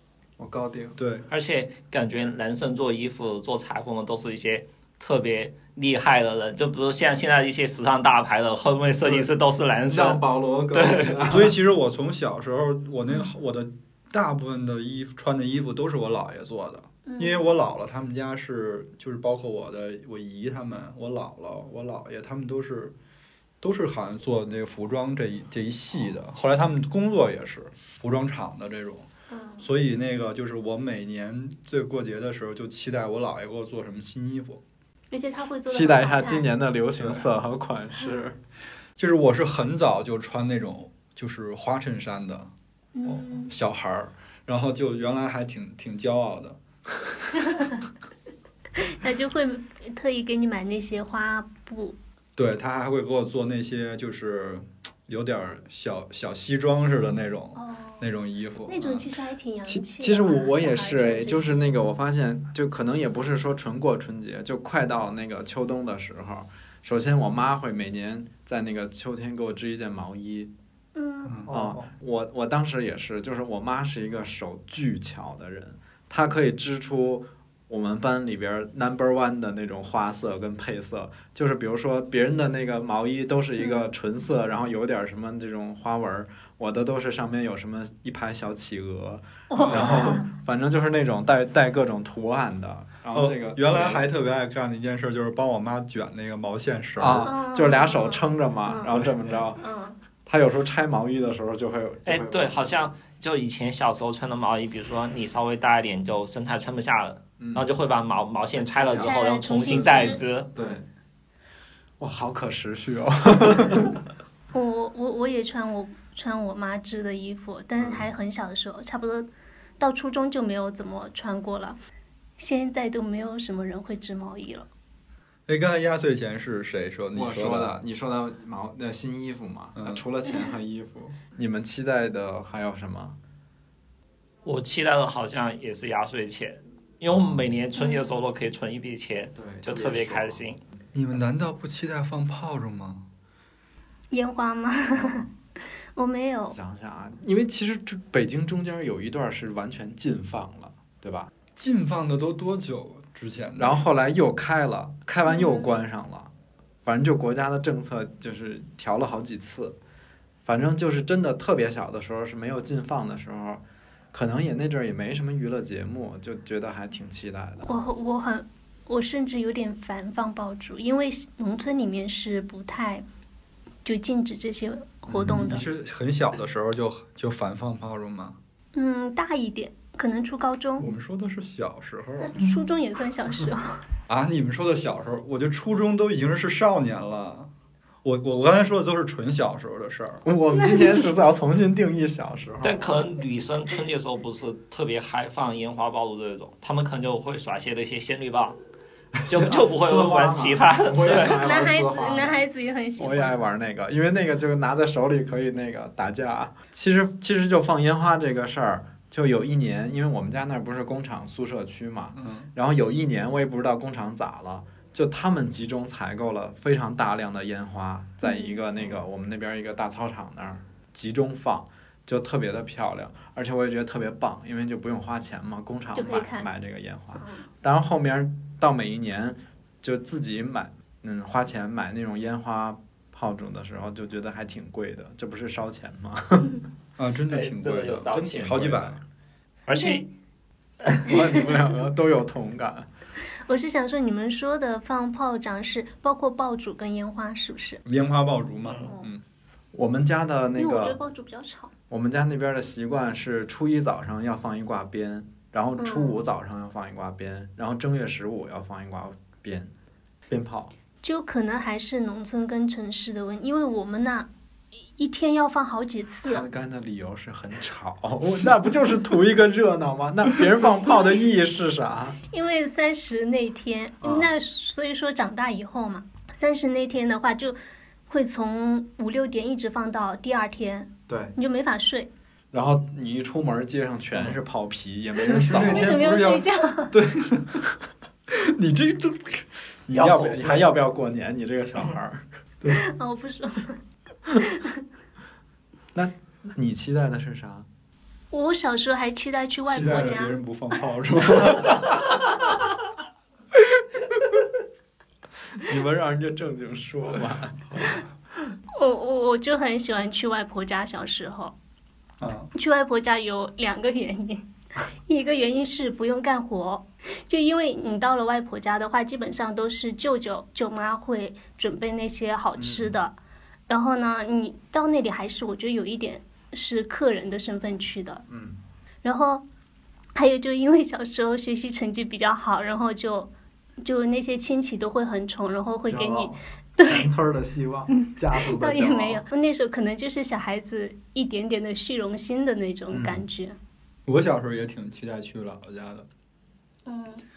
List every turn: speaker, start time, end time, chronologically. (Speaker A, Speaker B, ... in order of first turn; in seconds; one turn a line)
Speaker A: 0.4-1.0
Speaker B: 1.0-1.2
Speaker C: 1.3-11.3
Speaker A: 9.0-9.3
Speaker A: 9.9-11.6
Speaker B: 11.3-22.9
Speaker D: 17.0-17.6
Speaker B: 23.6-29.1
Speaker D: 29.3-29.7
Speaker B: 29.6-34.6
Speaker D: 35.1-36.5
Speaker A: 35.6-38.4
Speaker B: 37.0-37.3
Speaker B: 39.0-42.5
Speaker D: 42.9-43.5
Speaker B: 43.0-46.6
Speaker D: 47.5-47.8
Speaker D: 48.8-52.0
Speaker B: 52.4-59.1
Speaker D: 57.5-58.1
Speaker D: 58.6-61.8
Speaker A: 59.7-70.5
Speaker D: 70.9-71.4
Speaker B: 71.2-71.5
Speaker A: 71.5-94.0
Speaker D: 83.6-83.9
Speaker D: 89.5-90.3
Speaker B: 89.7-90.1
Speaker B: 93.1-97.3
Speaker A: 97.0-99.6
Speaker D: 97.2-98.9
Speaker D: 99.6-100.0
Speaker A: 100.2-102.9
Speaker C: 102.0-110.5
Speaker A: 107.4-107.7
Speaker D: 108.8-110.2
Speaker A: 110.5-110.8
Speaker A: 112.0-114.0
Speaker D: 114.5-119.3
Speaker D: 119.8-121.8
Speaker D: 122.4-124.7
Speaker B: 125.5-127.7
Speaker A: 127.1-133.2
Speaker B: 129.8-130.0
Speaker C: 134.4-140.6
Speaker A: 137.1-137.4
Speaker D: 137.8-138.1
Speaker A: 139.3-140.4
Speaker B: 140.9-143.0
Speaker D: 144.1-145.2
Speaker D: 145.9-146.6
Speaker A: 146.5-151.3
Speaker B: 151.6-153.8
Speaker A: 153.6-156.3
Speaker D: 155.3-155.8
Speaker A: 156.8-159.8
Speaker A: 160.4-167.7
Speaker D: 167.7-173.0
Speaker D: 173.8-175.6
Speaker B: 175.1-178.3
Speaker D: 178.7-180.9
Speaker B: 180.8-182.6
Speaker D: 182.2-183.8
Speaker B: 184.1-187.5
Speaker B: 188.0-190.2
Speaker A: 190.2-193.0
Speaker C: 192.6-198.6
Speaker A: 199.2-202.4
Speaker C: 199.3-201.4
Speaker D: 201.4-203.3
Speaker A: 203.0-236.6
Speaker B: 212.1-212.5
Speaker D: 218.2-218.6
Speaker D: 225.9-226.5
Speaker D: 227.2-227.4
Speaker B: 237.0-239.0
Speaker C: 237.3-238.9
Speaker C: 239.7-240.1
Speaker D: 239.7-240.0
Speaker A: 241.0-242.9
Speaker D: 243.4-247.8
Speaker B: 247.8-249.2
Speaker A: 249.7-251.0
Speaker D: 250.6-251.7
Speaker A: 251.9-259.7
Speaker D: 255.8-256.2
Speaker A: 260.3-260.7
Speaker D: 261.0-264.3
Speaker D: 264.9-266.4
Speaker A: 266.2-272.2
Speaker D: 270.9-271.1
Speaker D: 272.3-277.6
Speaker A: 274.0-274.3
Speaker D: 278.1-282.1
Speaker A: 282.5-286.1
Speaker B: 285.2-287.6
Speaker D: 285.5-286.9
Speaker B: 288.3-289.4
Speaker A: 289.9-292.2
Speaker C: 289.9-290.7
Speaker D: 292.7-293.8
Speaker D: 294.4-294.8
Speaker A: 295.9-297.7
Speaker D: 298.3-300.4
Speaker B: 299.7-302.0
Speaker A: 305.6-307.9
Speaker D: 308.8-311.5
Speaker B: 312.2-312.5
Speaker D: 312.5-314.4
Speaker D: 315.1-323.1
Speaker A: 322.6-322.9
Speaker D: 323.7-328.2
Speaker A: 328.3-328.6
Speaker D: 329.0-329.4
Speaker D: 330.1-333.3
Speaker D: 333.8-337.1
Speaker A: 335.9-339.2
Speaker D: 337.9-343.6
Speaker A: 342.9-343.2
Speaker B: 344.1-346.1
Speaker D: 346.9-347.2